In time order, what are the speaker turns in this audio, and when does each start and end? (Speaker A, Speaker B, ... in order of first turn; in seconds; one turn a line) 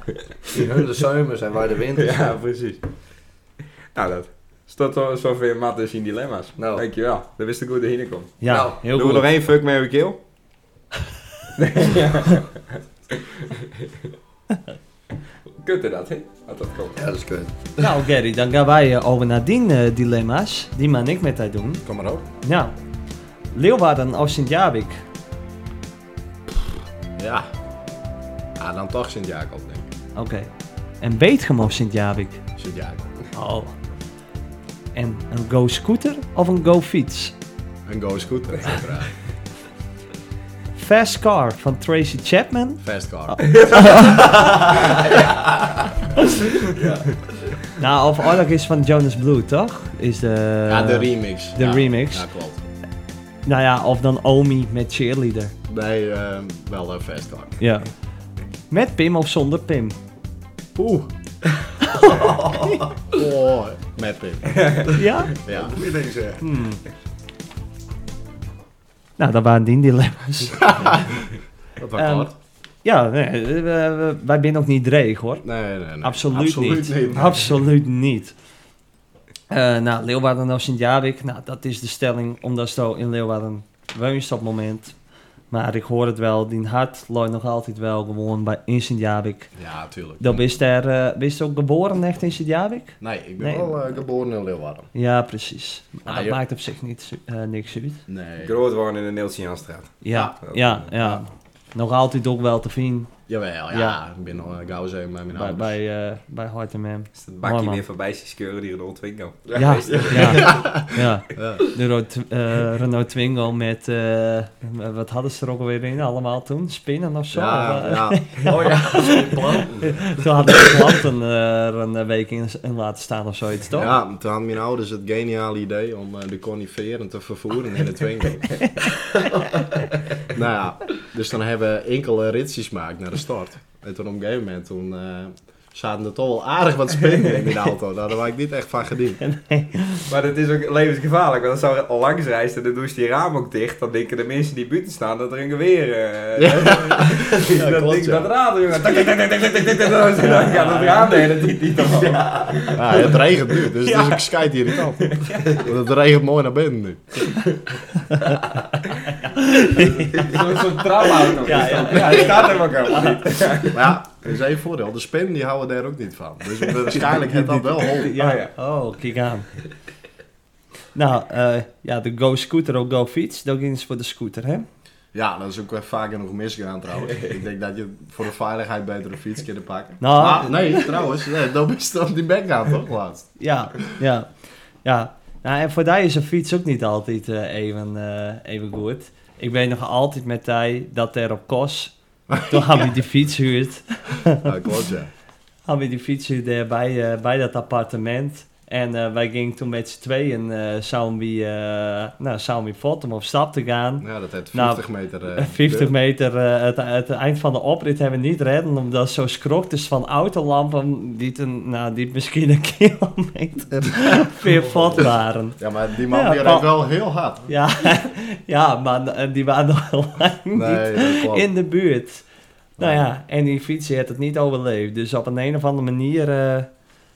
Speaker A: 0.5-2.4
Speaker B: 1.9-2.8
Speaker B: 3.9-10.2
Speaker A: 6.6-6.8
Speaker C: 8.4-9.3
Speaker A: 8.5-8.8
Speaker B: 11.6-14.1
Speaker B: 15.6-17.0
Speaker A: 17.0-17.9
Speaker C: 17.8-21.8
Speaker D: 21.8-22.2
Speaker C: 22.4-22.7
Speaker C: 23.5-25.0
Speaker D: 27.2-27.5
Speaker D: 28.6-29.9
Speaker C: 30.1-30.5
Speaker C: 31.0-32.4
Speaker D: 32.6-33.0
Speaker C: 33.3-33.7
Speaker C: 34.9-37.3
Speaker D: 37.9-39.2
Speaker C: 40.8-44.7
Speaker D: 42.8-43.8
Speaker B: 43.5-44.2
Speaker B: 44.7-45.0
Speaker A: 45.0-45.6
Speaker C: 46.1-46.4
Speaker A: 46.7-47.5
Speaker C: 47.8-52.2
Speaker D: 50.7-52.6
Speaker C: 53.5-55.5
Speaker D: 55.7-57.6
Speaker C: 57.6-57.9
Speaker C: 58.7-60.0
Speaker D: 60.7-61.1
Speaker A: 62.0-62.8
Speaker D: 63.0-64.9
Speaker B: 64.5-65.0
Speaker C: 64.9-65.3
Speaker D: 65.5-65.8
Speaker A: 65.5-66.4
Speaker C: 66.4-66.8
Speaker C: 69.2-70.9
Speaker D: 70.6-72.3
Speaker C: 71.9-72.3
Speaker C: 72.8-75.4
Speaker D: 75.4-77.6
Speaker C: 76.0-78.3
Speaker C: 79.5-84.9
Speaker C: 85.5-89.5
Speaker D: 89.5-90.4
Speaker C: 90.2-93.8
Speaker D: 93.0-94.9
Speaker C: 94.9-98.0
Speaker D: 96.0-96.4
Speaker D: 98.1-98.5
Speaker B: 98.4-100.9
Speaker C: 100.0-103.1
Speaker D: 100.9-101.2
Speaker D: 103.3-105.8
Speaker C: 103.7-104.0
Speaker C: 105.3-107.8
Speaker B: 107.1-110.6
Speaker A: 109.5-110.6
Speaker C: 109.5-124.0
Speaker D: 110.4-111.7
Speaker D: 117.3-118.4
Speaker A: 118.4-120.7
Speaker D: 123.7-128.8
Speaker D: 130.3-139.2
Speaker C: 139.2-140.1
Speaker B: 140.1-155.7
Speaker D: 146.4-148.3
Speaker C: 150.2-151.1
Speaker D: 152.7-157.3
Speaker C: 158.1-158.4
Speaker C: 159.1-160.4
Speaker B: 159.8-163.8
Speaker C: 161.4-163.6
Speaker D: 163.7-168.1
Speaker C: 167.0-169.5
Speaker B: 168.2-168.5
Speaker C: 170.9-174.7
Speaker D: 175.1-183.4
Speaker C: 180.0-181.0
Speaker C: 183.4-194.5
Speaker D: 192.3-192.9
Speaker D: 194.4-195.1
Speaker C: 195.7-215.6
Speaker D: 204.0-205.9
Speaker D: 215.6-217.5
Speaker C: 216.1-216.7
Speaker C: 217.5-222.3
Speaker D: 220.5-221.5
Speaker C: 222.8-226.7